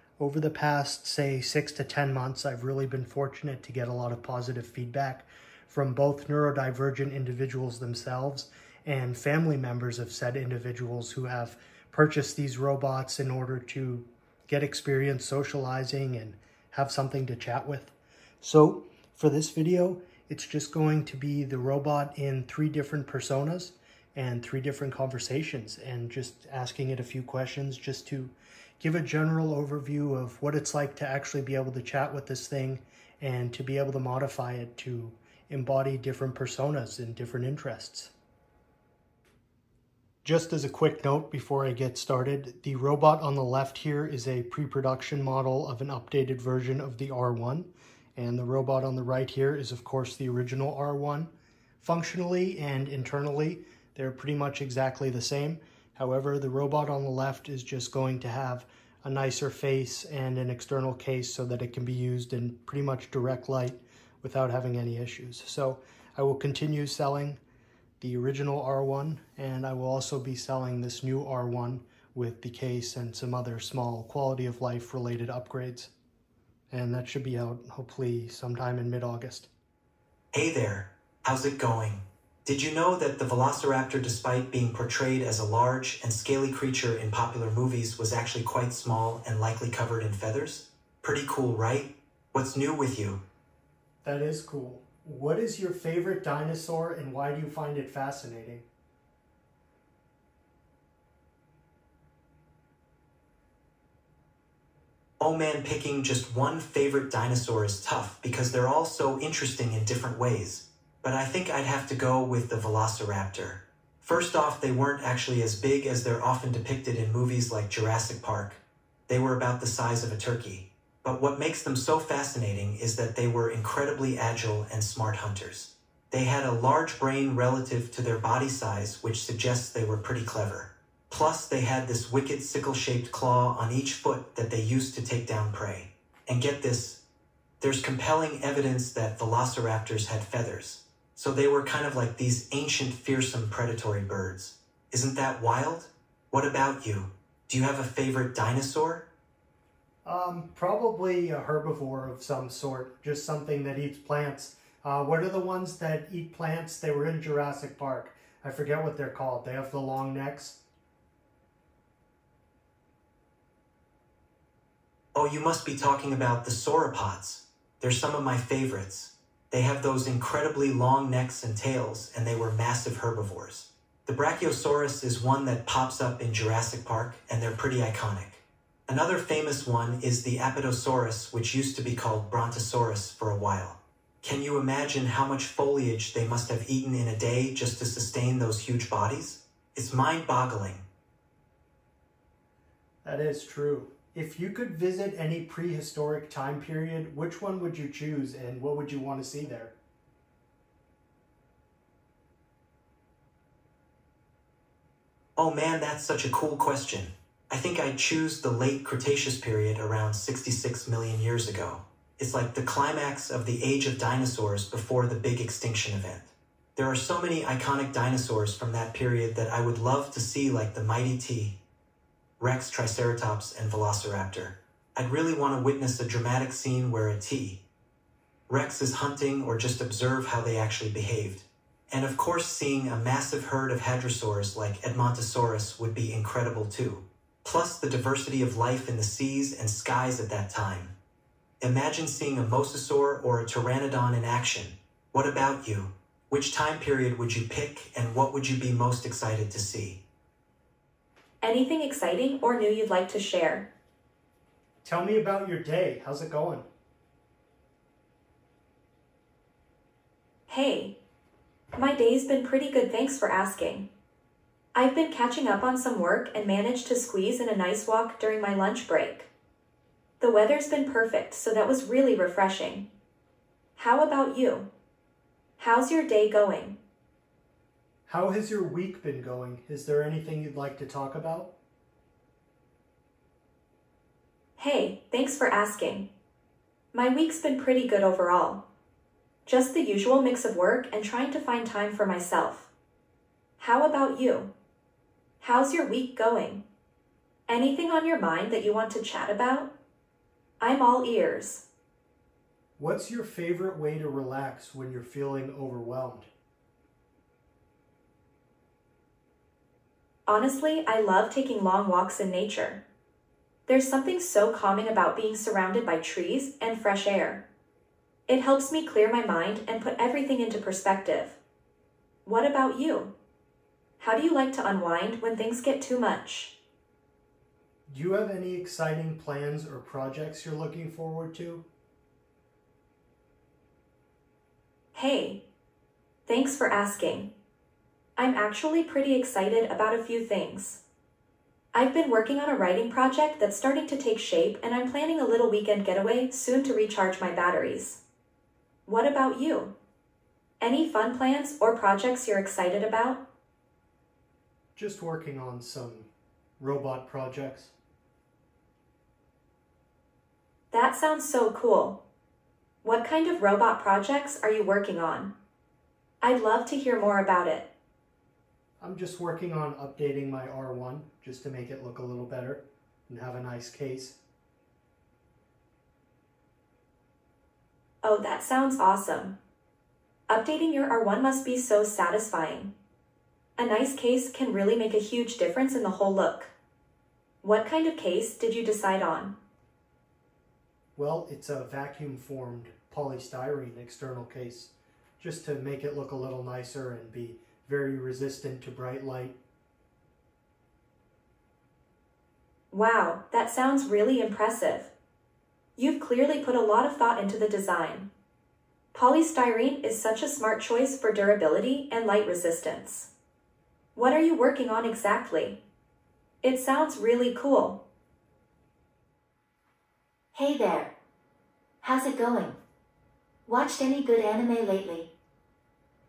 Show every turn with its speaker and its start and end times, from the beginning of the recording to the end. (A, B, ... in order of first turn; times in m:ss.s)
0:00.2-0:38.1 A
0:40.2-1:07.4 A
1:08.0-1:15.9 A
1:16.7-1:19.5 A
1:20.3-1:33.2 B
1:34.0-1:38.6 A
1:45.2-2:17.0 B
2:17.6-2:29.0 B
2:30.0-2:40.6 A
2:45.2-3:10.8 B
3:13.0-3:19.7 A
3:25.4-3:41.6 B
3:42.4-3:47.6 B
3:48.5-4:00.9 B
4:01.6-4:10.0 B
4:11.4-4:13.7 C
4:14.8-4:16.6 A
4:20.5-4:20.9 C
4:21.7-4:23.9 C
4:24.7-4:29.3 C
4:30.2-4:32.8 C
4:33.8-4:34.7 C
4:35.6-4:36.8 C
4:38.1-4:41.5 A
4:44.6-4:46.1 C
4:46.9-4:48.6 C
4:49.4-4:52.7 C
4:53.6-4:54.5 C
4:55.4-4:56.6 C
4:57.5-4:59.7 C
5:00.6-5:01.6 C
5:02.8-5:06.3 A
5:10.3-5:12.8 C
5:13.7-5:17.4 C
5:18.3-5:21.4 C
5:22.2-5:23.1 C
5:24.0-5:26.5 C
5:27.9-5:31.6 A
5:34.9-5:35.4 C
5:36.2-5:37.3 C
5:38.2-5:40.8 C
5:41.7-5:48.0 C
5:48.8-5:49.7 C
5:50.6-5:53.2 C
5:54.8-5:57.7 A
6:00.7-6:02.0 C
6:02.8-6:05.3 C
6:06.2-6:07.7 C
6:08.8-6:14.2 A
6:18.0-6:19.3 C
6:20.3-6:22.7 C
6:23.6-6:26.5 C
6:27.4-6:29.3 C
6:31.0-6:39.4 A
6:42.7-6:44.9 C
6:45.8-6:48.1 C
6:48.9-6:53.1 C
6:53.9-6:55.6 C
6:56.4-6:57.8 C
7:00.3-7:00.9 D
7:01.8-7:02.6 D
7:03.4-7:05.1 D